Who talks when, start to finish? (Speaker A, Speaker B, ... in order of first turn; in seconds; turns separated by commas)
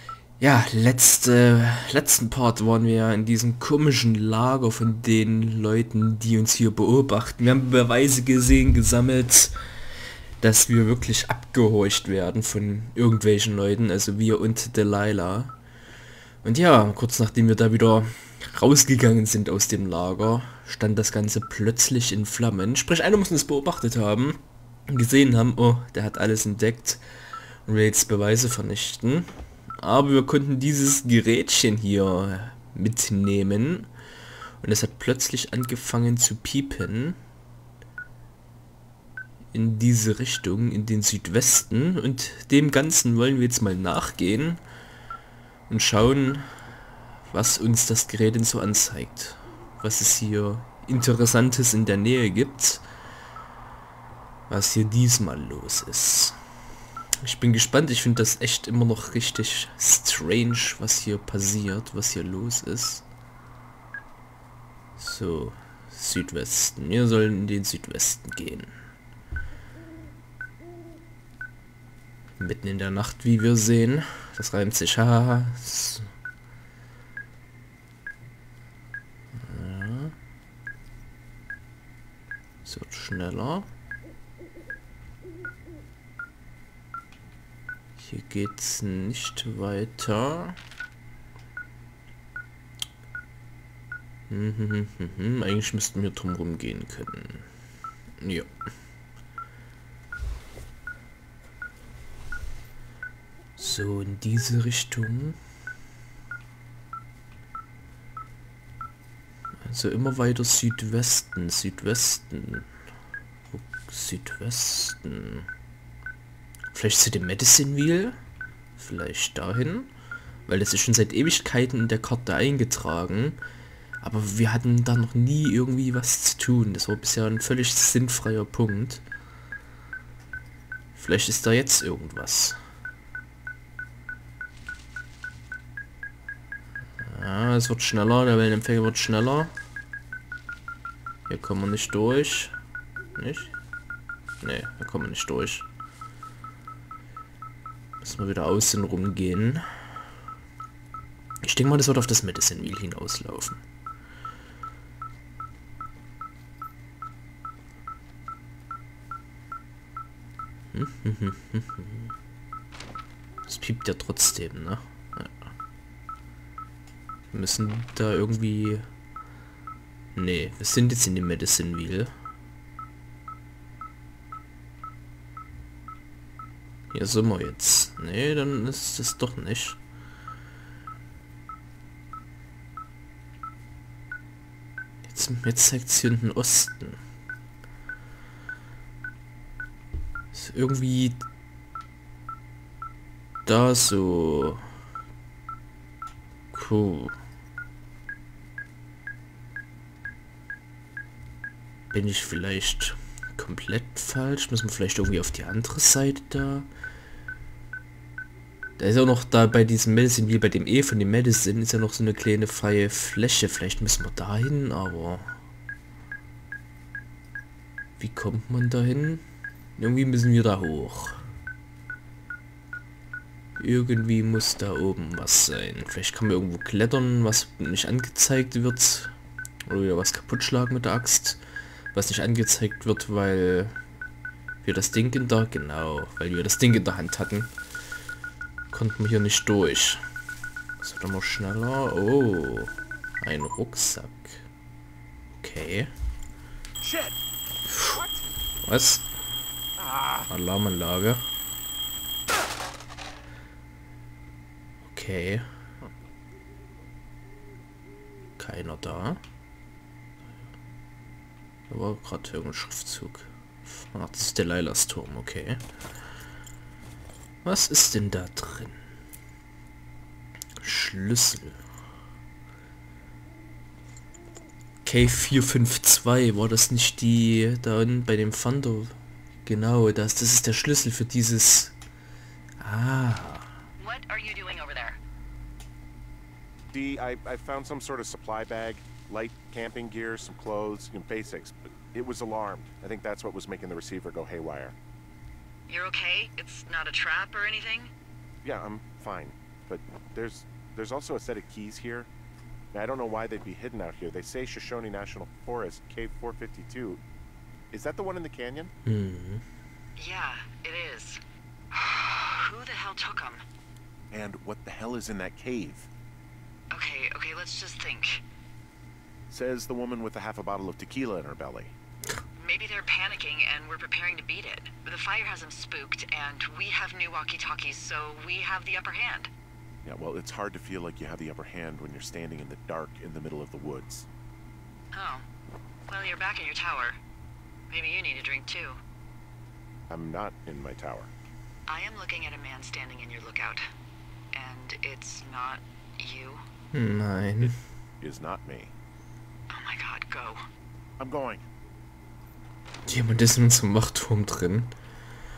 Speaker A: 0.4-9.5, Speaker A: 10.4-15.6, Speaker A: 16.4-27.0, Speaker A: 27.7-33.9, Speaker A: 34.6-37.2, Speaker A: 39.5-44.6, Speaker A: 45.7-46.5, Speaker A: 47.3-52.8, Speaker A: 54.5-56.4, Speaker A: 57.2-63.0, Speaker A: 65.0-68.7, Speaker A: 72.4-76.1, Speaker A: 79.3-80.2, Speaker A: 82.6-83.7, Speaker A: 88.0-90.6, Speaker A: 94.3-97.5, Speaker A: 98.2-98.5, Speaker A: 103.6-105.4, Speaker A: 109.6-112.7, Speaker A: 113.5-115.5, Speaker A: 116.7-118.2, Speaker A: 118.8-119.9, Speaker A: 120.5-123.4, Speaker A: 124.0-129.0, Speaker A: 130.9-132.6, Speaker A: 137.0-139.5, Speaker A: 141.3-142.6, Speaker A: 143.2-143.5, Speaker A: 144.4-145.7, Speaker A: 148.0-149.7, Speaker A: 151.4-153.6, Speaker A: 160.7-162.1, Speaker A: 163.5-165.5, Speaker A: 167.3-168.9, Speaker A: 170.2-172.1, Speaker A: 176.9-179.8, Speaker A: 185.1-187.0, Speaker A: 190.3-191.2, Speaker A: 193.5-194.7, Speaker A: 196.5-197.2, Speaker A: 201.9-206.7, Speaker A: 208.8-215.3, Speaker A: 218.0-219.2, Speaker A: 219.8-221.2, Speaker A: 223.6-229.1, Speaker A: 229.7-231.4, Speaker A: 231.9-233.8, Speaker A: 234.6-237.5, Speaker A: 238.7-240.0, Speaker A: 240.8-244.4, Speaker A: 245.4-245.9, Speaker B: 246.8-247.2, Speaker A: 247.7-248.0, Speaker B: 247.8-248.2, Speaker A: 248.6-249.1, Speaker B: 249.8-250.3, Speaker A: 250.3-251.2, Speaker A: 254.9-255.5, Speaker A: 258.4-259.2, Speaker A: 261.7-265.6, Speaker A: 267.4-268.8, Speaker A: 270.6-271.6, Speaker A: 274.9-281.7, Speaker A: 282.6-283.5, Speaker C: 283.8-285.0, Speaker B: 286.7-294.8, Speaker C: 295.7-297.9, Speaker B: 298.4-302.1, Speaker B: 302.7-307.0, Speaker B: 307.7-308.7, Speaker A: 308.9-309.4, Speaker C: 310.0-313.4, Speaker B: 314.1-315.9, Speaker C: 316.7-318.2, Speaker B: 319.3-321.7, Speaker C: 322.4-329.3, Speaker B: 329.9-334.1, Speaker C: 334.9-335.2, Speaker C: 335.9-337.0, Speaker C: 337.7-338.8, Speaker B: 339.9-341.1, Speaker C: 341.7-343.7, Speaker C: 344.3-346.4, Speaker A: 346.7-347.6, Speaker B: 348.0-348.7, Speaker C: 349.5-350.4, Speaker B: 351.0-351.4, Speaker A: 352.9-354.7